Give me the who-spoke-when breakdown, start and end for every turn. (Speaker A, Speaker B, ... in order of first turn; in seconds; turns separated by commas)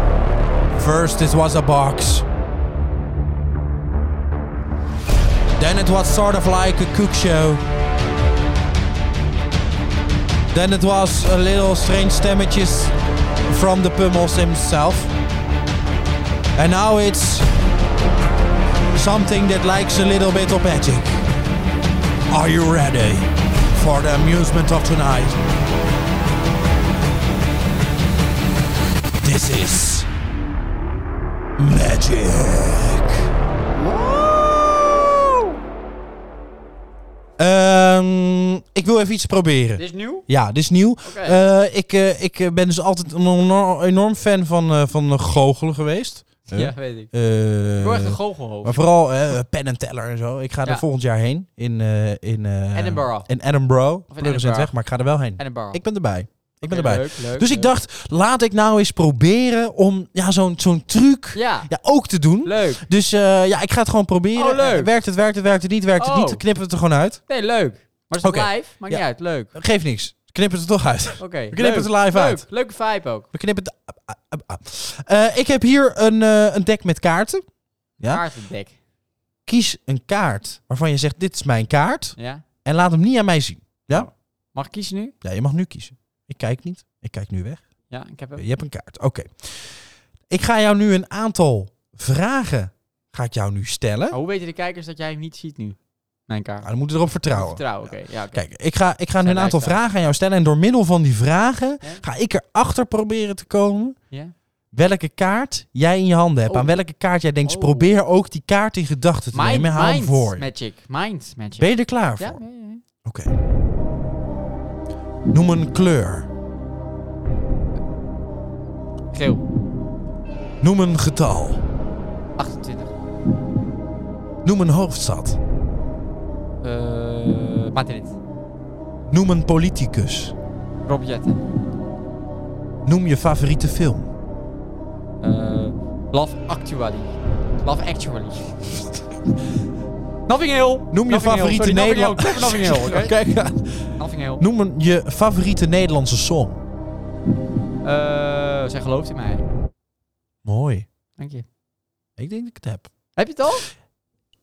Speaker A: 0.7-2.2, Speaker A: 5.6-7.6, Speaker A: 10.5-12.9, Speaker A: 13.5-15.2, Speaker A: 16.6-17.5, Speaker A: 18.9-21.2, Speaker A: 22.3-25.4, Speaker A: 29.2-30.1, Speaker A: 31.6-33.3, Speaker B: 33.7-35.4, Speaker A: 37.4-67.2, Speaker B: 39.8-40.2, Speaker B: 41.0-41.4, Speaker B: 46.5-47.1, Speaker B: 47.8-48.8, Speaker B: 52.7-53.3, Speaker B: 54.1-54.7, Speaker B: 55.4-55.8, Speaker B: 56.6-57.8, Speaker B: 61.3-61.7, Speaker B: 62.4-62.8, Speaker B: 64.3-64.9, Speaker B: 66.0-66.4, Speaker B: 67.3-69.5, Speaker A: 68.2-72.5, Speaker B: 71.2-73.3, Speaker A: 73.3-77.4, Speaker A: 78.0-78.2, Speaker B: 78.1-78.8, Speaker A: 79.5-84.1, Speaker B: 82.2-82.4, Speaker B: 83.9-85.1, Speaker A: 85.2-87.6, Speaker B: 87.9-88.4, Speaker A: 88.4-94.2, Speaker B: 94.1-95.8, Speaker B: 96.3-96.7, Speaker A: 96.6-104.0, Speaker B: 97.3-98.4, Speaker B: 99.2-99.8, Speaker A: 104.7-110.5, Speaker B: 106.5-106.8, Speaker B: 107.4-107.9, Speaker B: 109.3-112.8, Speaker A: 111.6-112.4, Speaker A: 113.0-113.3, Speaker A: 115.3-116.3, Speaker B: 119.1-119.4, Speaker A: 120.6-121.6, Speaker B: 122.4-122.9, Speaker A: 124.4-125.4, Speaker B: 126.6-128.2, Speaker A: 129.1-130.3, Speaker B: 130.9-131.4, Speaker A: 132.8-134.1, Speaker B: 135.2-138.6, Speaker B: 140.3-143.1, Speaker A: 140.9-146.6, Speaker B: 143.9-144.4, Speaker B: 147.8-149.4, Speaker A: 150.4-150.9, Speaker B: 151.2-151.4, Speaker A: 152.2-152.9, Speaker B: 153.2-153.7